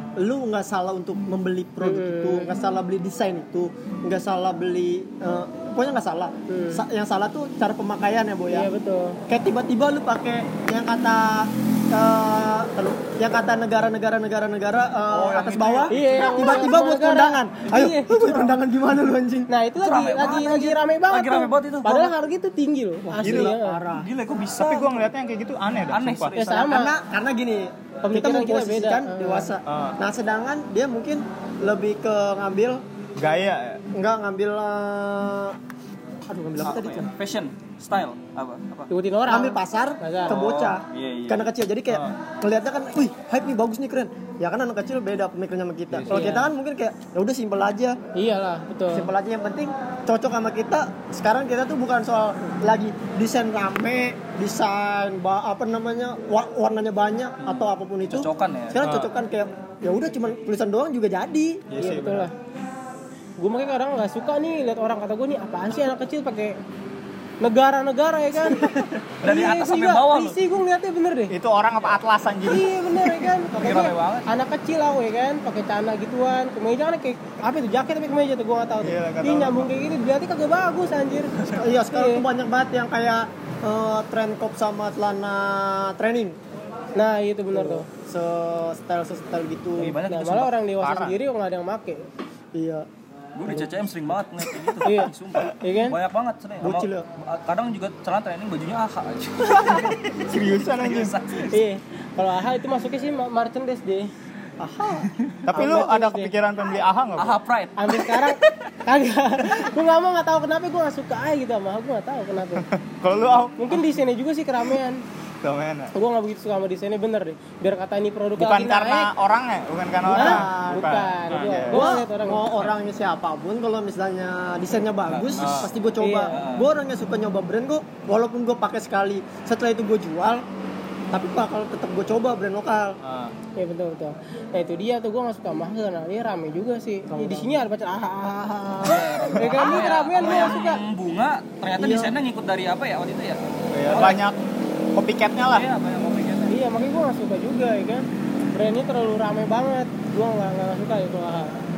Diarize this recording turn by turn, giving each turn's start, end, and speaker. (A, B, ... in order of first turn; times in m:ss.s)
0:00.2-0:08.7 A
0:01.8-0:02.5 B
0:06.5-0:06.8 B
0:08.5-0:09.2 B
0:09.3-0:19.5 A
0:15.1-0:16.6 C
0:15.9-0:18.2 B
0:18.2-0:18.5 C
0:19.5-0:23.8 B
0:19.8-0:22.1 C
0:23.1-0:24.1 A
0:23.2-0:23.5 D
0:23.9-0:25.1 C
0:24.6-0:26.3 D
0:25.9-0:26.9 C
0:26.3-0:26.9 B
0:26.7-0:32.8 A
0:28.0-0:29.5 B
0:29.6-0:30.0 D
0:33.2-0:33.8 D
0:33.9-0:35.6 A
0:36.3-0:37.1 A
0:36.6-0:38.9 C
0:38.9-0:40.4 B
0:39.3-0:48.0 A
0:40.3-0:41.5 C
0:45.9-0:46.3 D
0:46.1-0:46.5 B
0:48.1-0:49.1 B
0:48.9-1:01.6 A
0:57.4-0:58.8 C
0:58.8-0:59.1 D
1:01.7-1:02.3 D
1:01.8-1:02.3 B
1:03.4-1:06.6 B
1:07.4-1:11.3 B
1:08.5-1:10.4 C
1:11.3-1:13.1 D
1:12.4-1:22.2 B
1:13.5-1:14.3 C
1:18.8-1:19.7 D
1:21.6-1:26.4 A
1:27.0-1:27.8 B
1:27.5-1:30.0 A
1:29.8-1:30.5 C
1:30.0-1:32.0 B
1:30.8-1:31.2 D
1:32.5-1:32.9 A
1:33.4-1:41.6 C
1:34.8-1:36.0 B
1:36.6-1:37.0 A
1:39.4-1:41.1 D
1:41.5-1:44.1 B
1:44.6-1:45.8 A
1:45.4-1:47.4 D
1:45.5-1:46.3 B
1:47.2-1:48.5 C
1:47.8-1:52.7 B
1:52.6-1:53.8 D
1:53.6-1:55.0 B
1:55.4-1:55.9 D
1:55.9-1:59.1 B
1:58.4-2:01.8 D
2:00.1-2:00.9 A
2:00.1-2:02.5 B
2:01.3-2:01.6 C
2:01.7-2:10.4 A
2:05.1-2:05.7 C
2:05.4-2:05.7 D
2:06.0-2:06.4 B
2:06.3-2:06.7 C
2:11.1-2:13.0 A
2:13.0-2:13.3 D
2:13.6-2:20.8 B
2:17.1-2:17.5 A
2:18.8-2:24.2 C
2:21.8-2:22.1 A
2:23.7-2:24.4 D
2:24.9-2:25.7 D
2:25.5-2:26.5 C
2:26.5-2:31.5 B